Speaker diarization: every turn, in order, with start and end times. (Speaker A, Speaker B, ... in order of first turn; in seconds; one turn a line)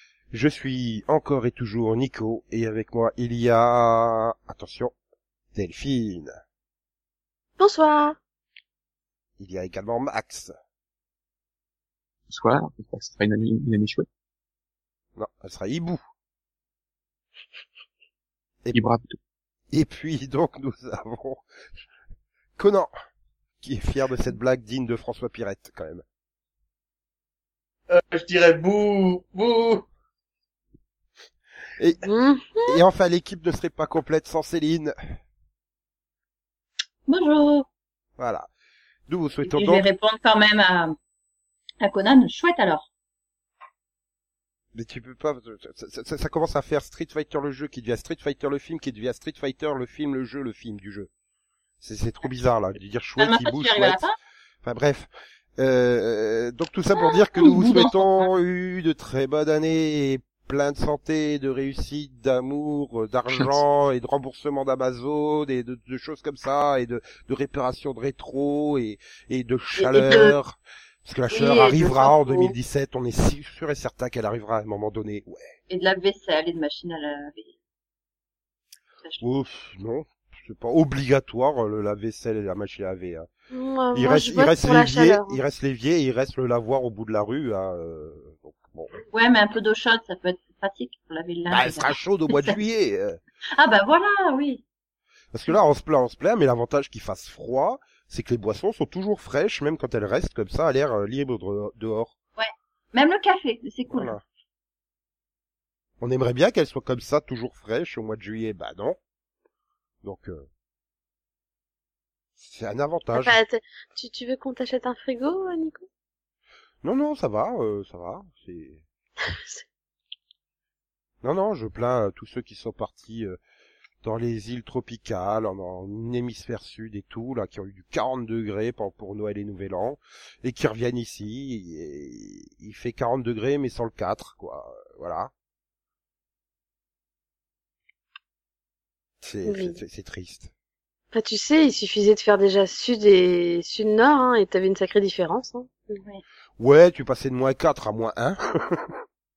Speaker A: 0.3-4.9
Speaker A: 5.5-6.4
Speaker B: 7.6-8.2
Speaker A: 9.4-10.5
Speaker C: 12.3-14.1
Speaker A: 15.2-16.0
Speaker C: 18.7-19.2
Speaker A: 19.7-21.4
Speaker A: 22.6-22.9
Speaker A: 23.6-26.0
Speaker D: 27.9-29.9
Speaker B: 32.0-32.8
Speaker A: 32.6-34.9
Speaker E: 37.1-37.7
Speaker A: 38.2-38.5
Speaker A: 39.1-39.9
Speaker E: 39.4-41.0
Speaker E: 41.8-42.9
Speaker A: 44.7-51.1
Speaker A: 51.8-54.0
Speaker E: 53.2-54.2
Speaker A: 54.6-75.5
Speaker E: 57.4-58.3
Speaker E: 69.8-70.3
Speaker E: 71.3-72.5
Speaker E: 75.7-77.5
Speaker A: 79.2-83.3
Speaker B: 83.5-85.4
Speaker A: 83.9-88.9
Speaker E: 89.1-92.6
Speaker A: 91.5-93.2
Speaker E: 93.6-94.6
Speaker A: 95.3-102.1
Speaker E: 102.4-104.2
Speaker A: 103.9-104.2
Speaker A: 106.0-109.0
Speaker A: 110.0-110.5
Speaker A: 112.4-113.4
Speaker B: 113.1-115.9
Speaker A: 116.8-118.8
Speaker B: 119.2-119.6
Speaker A: 121.2-123.4
Speaker A: 124.0-135.3
Speaker A: 139.2-140.5
Speaker B: 139.4-139.8
Speaker B: 141.1-146.0
Speaker A: 146.6-149.0